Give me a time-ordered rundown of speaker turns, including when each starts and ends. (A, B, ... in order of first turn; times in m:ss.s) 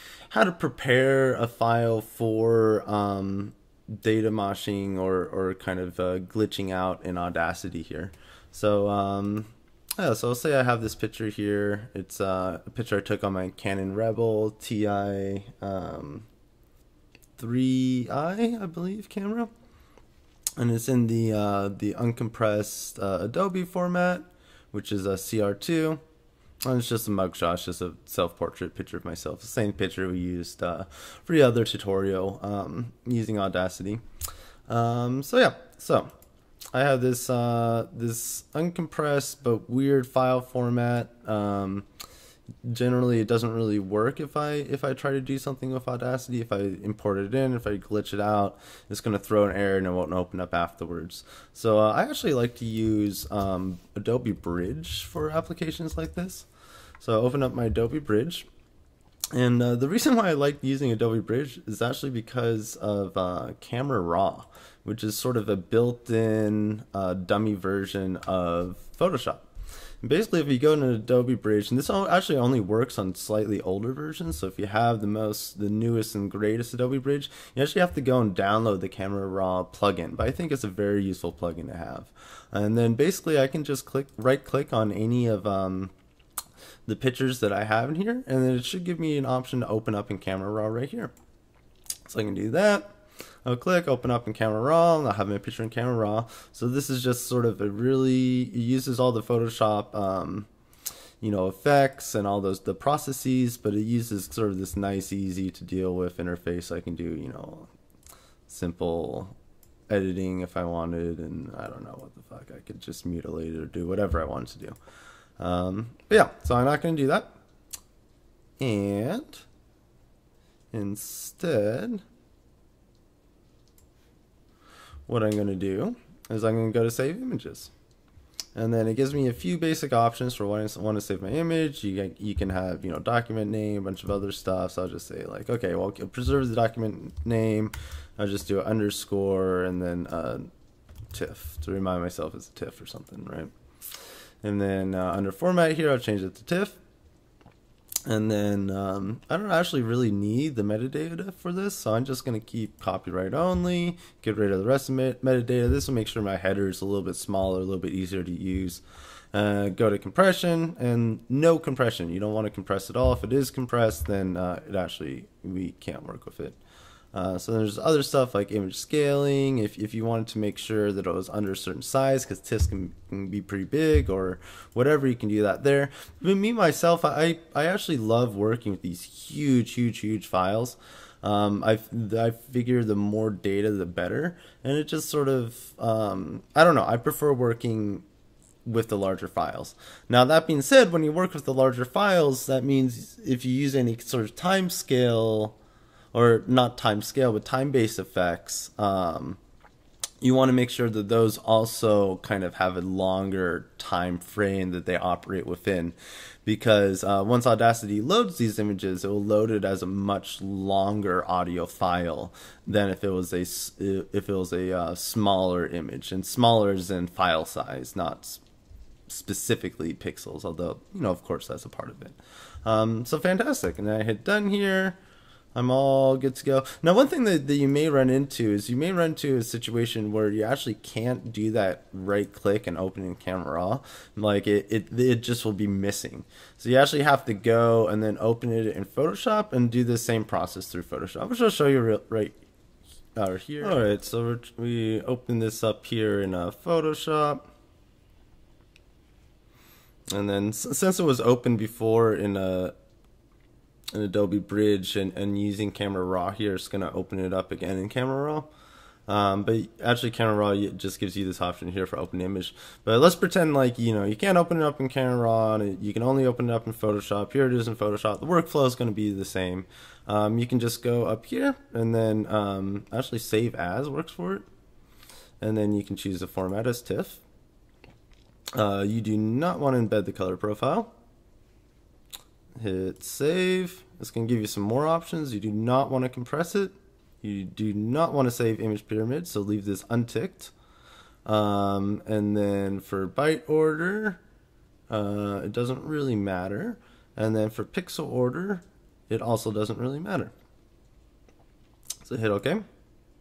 0:00.3-0:16.3 A
0:17.4-0:19.5 A
0:20.6-0:26.0 A
0:26.6-0:34.0 A
0:34.7-0:36.1 A
0:36.7-0:41.9 A
0:42.6-0:56.5 A
0:57.0-0:58.5 A
0:59.3-1:09.5 A
1:10.0-1:25.9 A
1:26.8-1:31.1 A
1:32.0-1:32.9 A
1:33.4-1:40.5 A
1:41.2-1:47.7 A
1:48.5-1:49.4 A
1:49.9-1:54.8 A
1:55.4-1:57.3 A
1:58.6-1:59.4 A
2:00.7-2:02.0 A
2:05.1-2:07.7 A
2:08.5-2:20.5 A
2:21.1-2:23.5 A
2:24.4-2:26.8 A
2:28.0-2:38.8 A
2:39.3-2:46.6 A
2:47.1-3:08.0 A
3:08.6-3:15.6 A
3:16.1-3:19.4 A
3:20.2-3:38.4 A
3:39.1-3:45.0 A
3:45.5-4:02.4 A
4:03.2-4:07.5 A
4:10.1-4:12.7 A
4:13.9-4:18.5 A
4:19.1-4:34.4 A
4:35.4-4:37.2 A
4:38.5-4:40.9 A
4:42.6-4:50.5 A
4:51.2-4:54.2 A
4:54.9-5:00.3 A
5:02.0-5:02.6 A